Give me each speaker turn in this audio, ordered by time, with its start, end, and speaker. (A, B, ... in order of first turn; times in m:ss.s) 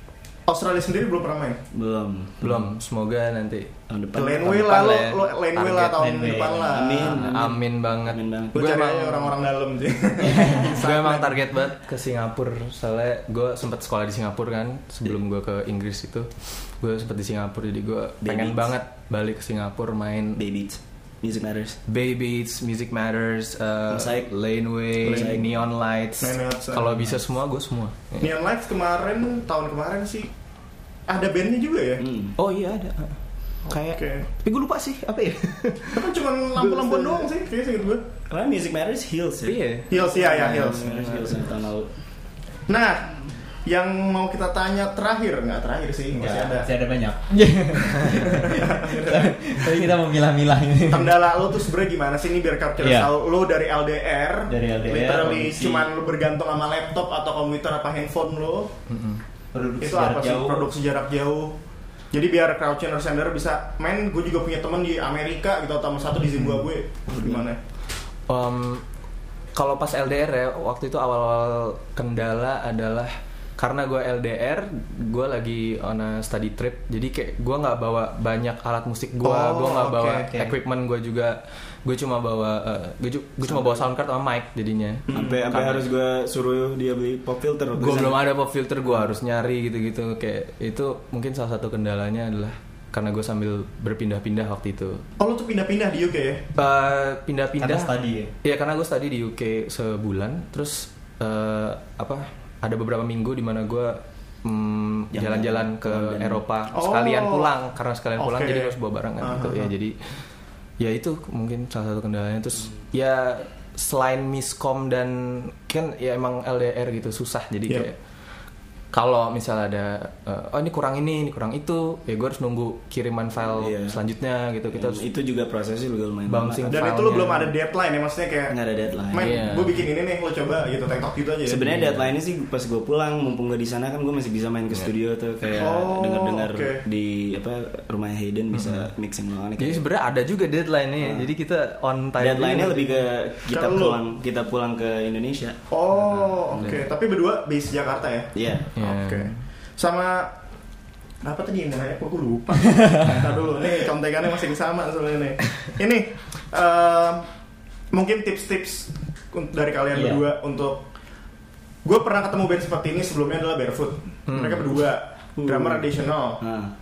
0:00.5-0:01.6 A
0:01.7-0:02.7 B
0:02.4-0:03.7 C
0:03.9-0:04.6 B
0:04.2-0:07.2 A
0:04.5-0:06.1 C
0:05.9-0:06.8 D
0:06.7-0:08.6 B
0:07.0-0:09.4 C
0:08.5-0:11.4 A
0:10.2-0:10.6 D
0:10.6-0:20.4 C
0:18.2-0:18.7 B
0:20.4-0:21.8 B
0:21.9-0:28.3 C
0:23.9-0:24.3 B
0:25.0-0:25.5 B
0:26.2-0:27.1 A
0:28.2-0:30.3 A
0:31.1-0:32.0 A
0:32.0-0:32.4 B
0:32.4-0:33.2 C
0:33.7-0:36.1 C
0:33.9-0:34.3 A
0:35.9-0:38.0 A
0:38.3-0:41.9 B
0:39.4-0:39.9 C
0:39.9-0:40.9 A
0:40.7-0:41.4 C
0:42.7-0:46.7 A
0:46.1-0:51.4 D
0:48.3-0:49.8 A
0:50.9-0:58.7 A
0:52.8-0:53.1 D
0:54.5-0:55.9 D
0:58.9-0:59.2 C
0:59.5-1:00.7 D
0:59.8-1:01.6 A
1:02.1-1:07.6 A
1:07.1-1:07.4 B
1:08.3-1:08.8 C
1:09.6-1:25.9 C
1:19.2-1:20.3 A
1:25.1-1:28.2 B
1:27.8-1:35.0 C
1:35.2-1:36.5 A
1:36.6-1:37.9 C
1:37.6-1:38.3 D
1:38.4-1:50.2 C
1:45.1-1:46.4 B
1:46.7-1:47.5 A
1:48.2-1:49.7 A
1:50.8-1:58.0 C
1:58.9-2:05.0 C
2:03.5-2:04.0 B
2:04.7-2:06.8 B
2:06.3-2:07.5 C
2:06.7-2:08.6 A
2:08.5-2:09.4 B
2:09.1-2:11.7 A
2:09.2-2:09.7 C
2:11.5-2:19.8 B
2:15.6-2:16.8 A
2:18.5-2:18.9 C
2:19.6-2:23.0 C
2:21.0-2:21.3 B
2:22.2-2:25.6 B
2:23.5-2:24.0 A
2:25.7-2:30.3 A
2:25.9-2:26.8 C
2:28.4-2:28.7 B
2:28.8-2:29.4 C
2:31.2-2:37.3 A
2:37.9-2:40.9 A
2:39.9-2:40.2 D
2:41.8-2:46.4 A
2:44.3-2:44.8 C
2:45.4-2:46.7 B